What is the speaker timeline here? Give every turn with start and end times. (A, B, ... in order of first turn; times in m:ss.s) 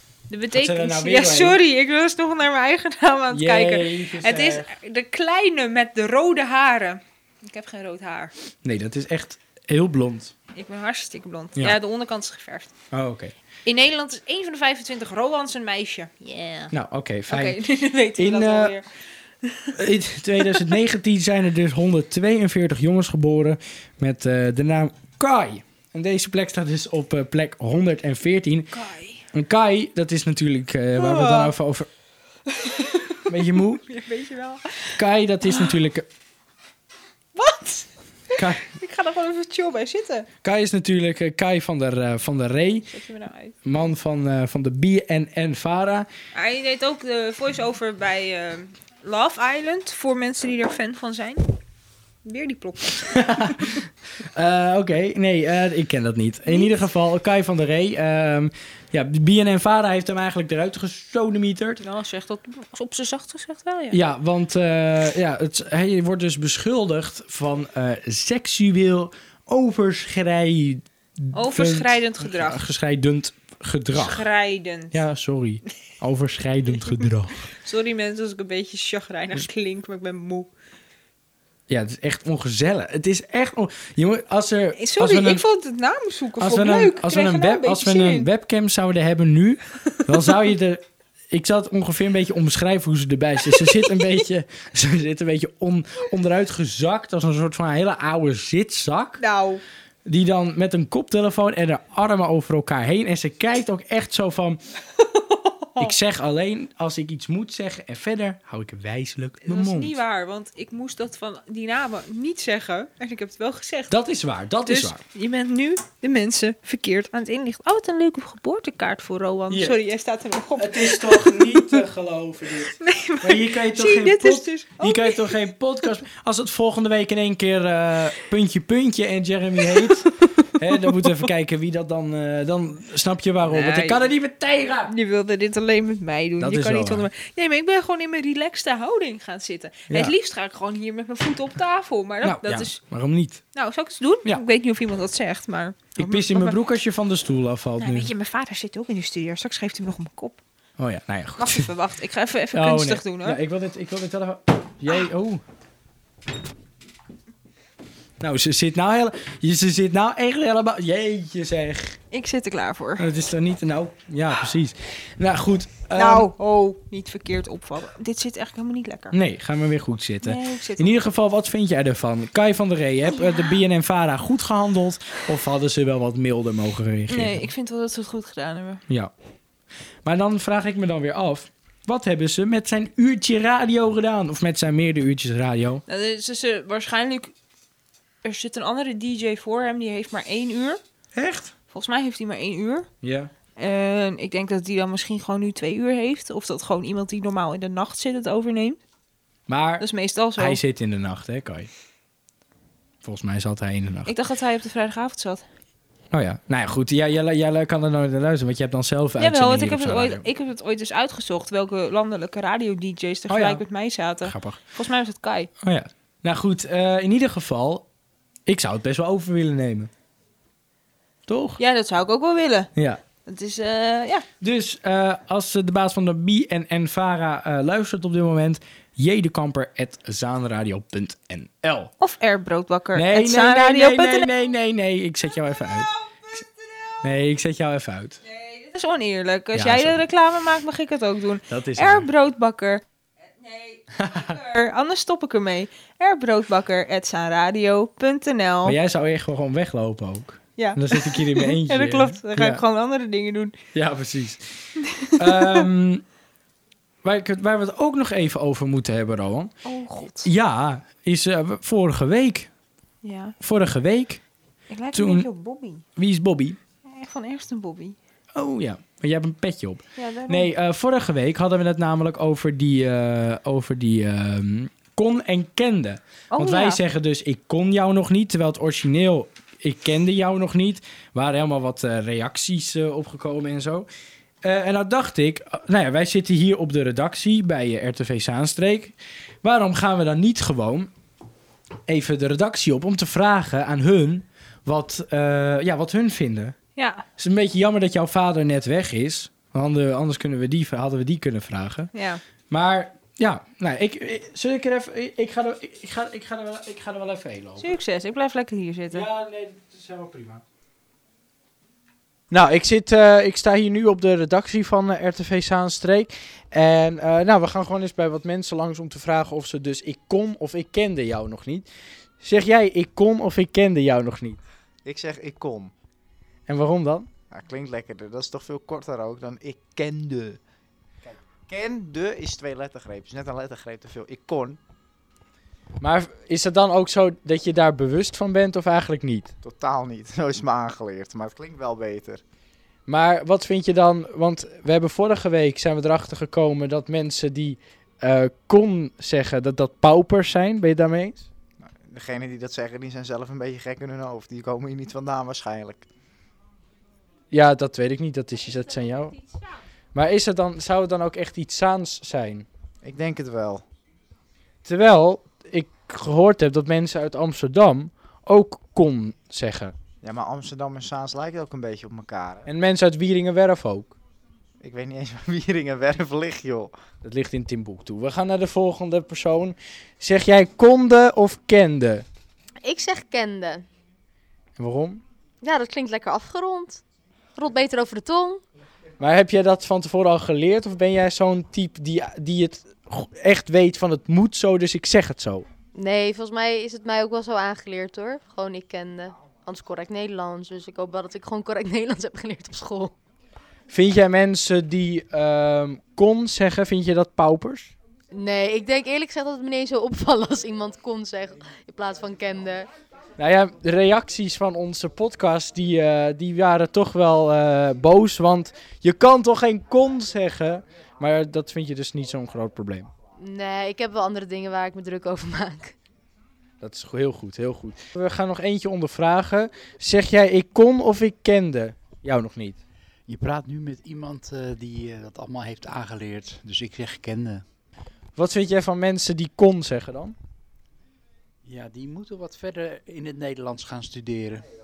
0:00.3-0:08.3 A
0:00.5-0:01.6 B
0:03.3-0:04.7 B
0:08.6-0:10.3 B
0:10.5-0:12.7 A
0:12.9-0:13.4 B
0:13.7-0:16.7 A
0:16.7-0:17.6 B
0:17.3-0:18.9 A
0:18.2-0:18.8 B
0:19.4-0:19.8 A
0:19.7-0:28.7 B
0:20.4-0:20.7 A
0:28.7-0:29.3 A
0:29.3-0:31.9 B
0:31.0-0:31.5 A
0:32.5-0:35.7 A
0:33.3-0:33.9 B
0:35.0-0:36.1 B
0:37.4-0:40.3 A
0:38.4-0:38.6 B
0:40.4-0:42.9 B
0:42.9-0:43.6 A
0:43.6-0:46.1 B
0:46.3-0:51.5 A
0:52.2-0:53.8 A
0:53.0-1:01.8 B
0:56.5-0:56.8 A
1:01.8-1:04.0 A
1:03.9-1:14.3 B
1:11.3-1:12.6 A
1:13.9-1:15.0 A
1:14.9-1:17.5 B
1:17.5-1:20.5 A
1:21.7-1:25.4 B
1:24.8-1:28.3 A
1:26.4-1:39.2 B
1:33.5-1:34.2 A
1:39.2-1:39.6 A
1:40.0-1:44.6 B
1:45.0-1:46.0 A
1:45.8-1:50.0 B
1:49.4-1:53.9 A
1:53.9-1:55.0 B
1:54.7-2:01.8 A
1:59.5-1:59.8 B
2:00.6-2:14.9 B
2:02.7-2:05.4 A
2:09.7-2:11.2 A
2:13.5-2:14.1 A
2:14.9-2:22.8 A
2:16.4-2:17.1 B
2:19.9-2:20.1 B
2:22.2-2:23.4 B
2:23.5-2:26.6 A
2:26.0-2:28.1 B
2:27.8-2:30.4 A
2:30.8-2:31.7 B
2:31.4-2:33.4 A
2:32.5-2:35.4 B
2:38.2-2:42.0 B
2:42.1-2:43.1 A
2:43.0-2:46.3 B
2:46.0-2:49.2 A
2:49.1-2:57.5 B
2:50.2-2:50.9 A
2:53.2-2:53.5 A
2:57.1-2:58.8 A
3:00.0-3:05.8 B
3:05.9-3:07.3 A
3:08.2-3:10.8 A
3:11.1-3:11.5 B
3:11.7-3:12.9 A
3:13.0-3:13.3 B
3:13.6-3:18.8 A
3:19.5-3:19.9 B
3:19.8-3:20.6 A
3:20.4-3:21.7 B
3:23.0-3:24.1 B
3:24.1-3:25.4 A
3:26.1-3:30.3 B
3:29.2-3:35.5 A
3:33.3-3:33.6 B
3:34.2-3:34.6 B
3:35.6-3:37.9 B
3:38.5-3:39.9 B
3:41.3-3:41.6 B
3:41.6-3:42.7 A
3:42.8-3:43.0 B
3:43.2-3:44.3 A
3:44.4-3:51.9 B
3:52.0-3:54.3 A
3:52.9-3:55.9 B
3:57.0-3:58.2 B
3:58.2-4:02.8 A
3:59.5-4:00.0 B
4:01.5-4:02.1 B
4:03.4-4:08.8 A
4:04.0-4:04.4 B
4:08.6-4:12.6 B
4:10.6-4:13.6 A
4:13.7-4:14.4 B
4:14.8-4:15.7 A
4:15.2-4:16.0 B
4:17.0-4:19.6 B
4:19.6-4:20.3 A
4:20.2-4:22.5 B
4:23.0-4:23.4 A
4:23.4-4:24.2 B
4:24.7-4:25.8 A
4:24.9-4:25.3 B
4:26.0-4:26.6 B
4:26.9-4:28.0 A
4:28.3-4:43.9 B
4:30.0-4:30.5 A
4:36.3-4:36.8 A
4:44.4-4:50.9 B
4:51.9-4:56.6 B
4:56.8-4:57.1 A
4:57.2-5:01.9 B
5:01.9-5:02.2 A
5:02.5-5:07.7 B
5:07.6-5:09.1 A
5:08.9-5:10.4 B
5:12.3-5:21.7 B
5:22.2-5:24.4 B
5:24.8-5:25.7 C
5:26.5-5:27.1 B
5:27.3-5:30.4 C
5:31.0-5:34.6 C
5:35.8-5:39.3 B
5:39.4-5:42.2 C
5:42.9-5:51.3 B
5:51.6-5:55.9 C
5:57.3-5:59.2 B
5:59.9-6:02.5 B
6:02.8-6:03.6 C
6:04.6-6:09.8 B
6:10.0-6:12.5 C
6:12.5-6:14.0 B
6:14.6-6:16.7 C
6:17.0-6:22.0 B
6:22.6-6:23.7 D
6:24.6-6:25.0 B
6:25.4-6:26.8 D
6:27.4-6:28.4 D
6:29.0-6:35.5 B
6:35.7-6:42.9 D
6:43.7-6:47.7 B
6:48.1-6:52.7 D
6:53.2-7:02.9 B
7:03.2-7:05.8 D
7:06.6-7:12.6 B
7:13.1-7:17.4 E
7:18.2-7:20.2 B
7:21.4-7:24.4 E